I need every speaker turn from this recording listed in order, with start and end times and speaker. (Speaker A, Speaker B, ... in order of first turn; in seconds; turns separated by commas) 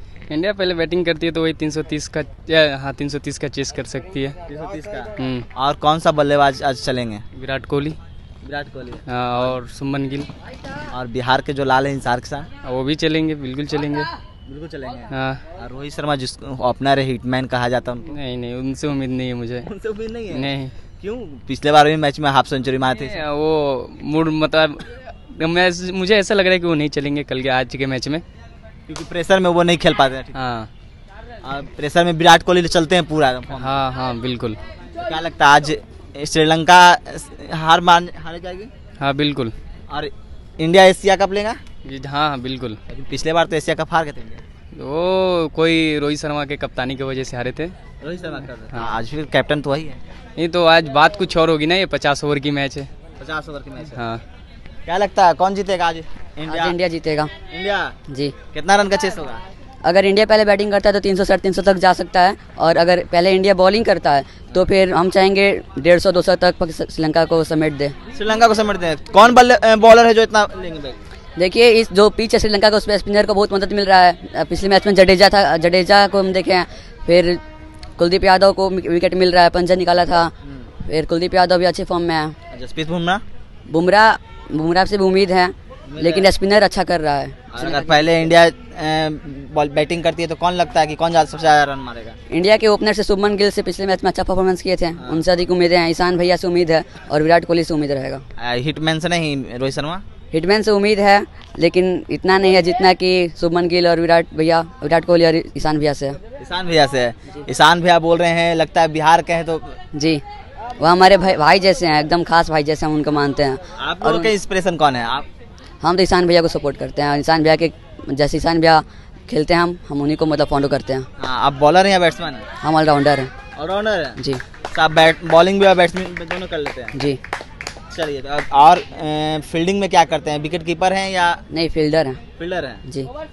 Speaker A: 0.3-4.3, Speaker B: 4.5-7.2, Speaker A: 5.2-5.5, Speaker A: 7.3-8.0, Speaker B: 8.4-9.6, Speaker A: 9.1-10.3, Speaker B: 10.9-12.5, Speaker A: 12.6-14.1, Speaker B: 14.5-18.1, Speaker A: 15.1-15.4, Speaker A: 18.1-19.7, Speaker B: 19.6-23.2, Speaker A: 20.3-20.7, Speaker A: 23.0-28.2, Speaker B: 28.9-30.4, Speaker A: 30.3-30.7, Speaker B: 31.4-33.8, Speaker A: 33.6-34.6, Speaker B: 35.0-38.7, Speaker A: 39.0-39.5, Speaker B: 39.9-41.6, Speaker A: 41.8-42.8, Speaker B: 42.9-44.4, Speaker A: 44.8-47.7, Speaker B: 48.0-50.0, Speaker A: 50.4-52.9, Speaker B: 53.2-54.0, Speaker A: 53.9-54.2, Speaker B: 54.9-56.8, Speaker C: 56.5-57.3, Speaker B: 57.5-57.9, Speaker C: 58.1-58.3, Speaker B: 58.5-59.4, Speaker C: 59.8-67.9, Speaker B: 68.1-71.0, Speaker C: 71.3-77.4, Speaker C: 78.0-80.3, Speaker B: 80.4-80.7, Speaker C: 80.8-82.3, Speaker B: 82.5-83.2, Speaker C: 83.7-88.0, Speaker B: 85.9-86.3, Speaker B: 87.5-92.2, Speaker C: 92.3-98.2, Speaker B: 95.0-95.2, Speaker B: 98.4-100.0, Speaker C: 100.3-106.2, Speaker B: 106.4-109.8, Speaker C: 109.9-110.2, Speaker C: 110.8-114.3, Speaker B: 113.8-115.2, Speaker C: 115.8-121.1, Speaker B: 121.2-122.5, Speaker C: 122.6-123.3, Speaker B: 123.5-124.2, Speaker B: 124.7-126.9, Speaker C: 126.9-127.2, Speaker B: 127.9-131.4, Speaker C: 131.5-132.2, Speaker B: 132.4-132.8